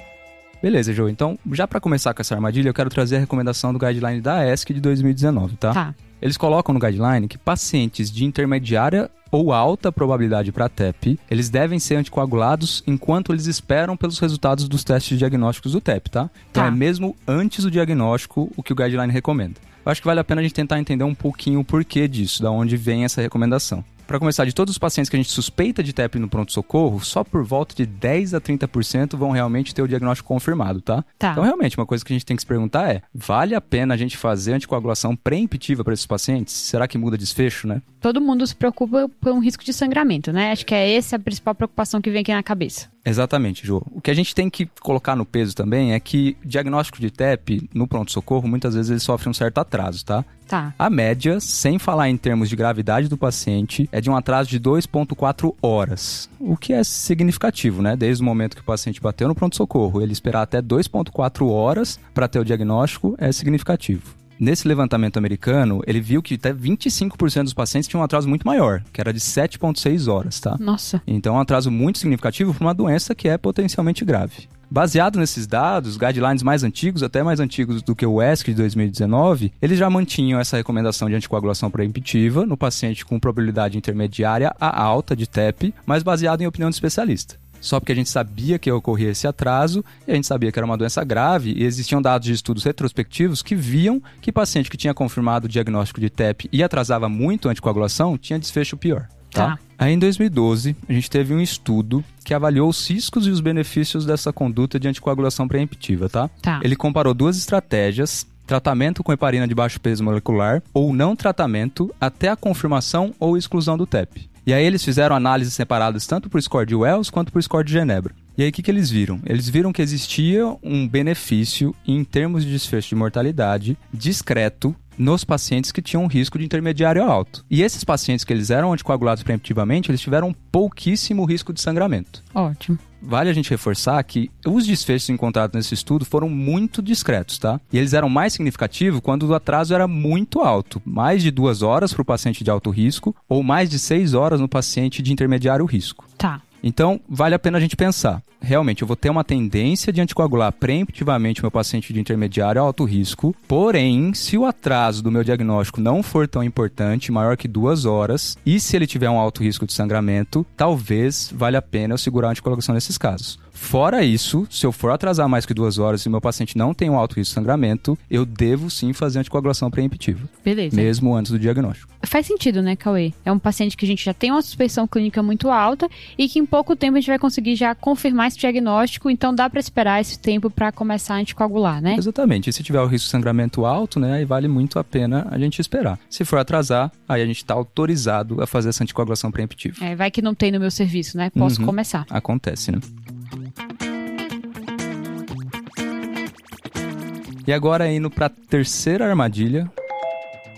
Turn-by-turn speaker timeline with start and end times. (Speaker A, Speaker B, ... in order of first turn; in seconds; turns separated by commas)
Speaker A: 0.6-37.8, Speaker B: 31.2-31.5, Speaker B: 38.0-42.9, Speaker A: 43.0-50.3, Speaker B: 50.5-50.8, Speaker A: 50.8-132.2, Speaker B: 70.6-71.0, Speaker B: 99.3-99.6, Speaker B: 132.3-132.8, Speaker A: 133.0-146.1, Speaker A: 146.6-171.9, Speaker B: 170.4-170.9, Speaker B: 172.0-182.0, Speaker A: 181.9-189.8, Speaker B: 189.8-192.1, Speaker A: 191.4-192.8, Speaker A: 197.5-199.7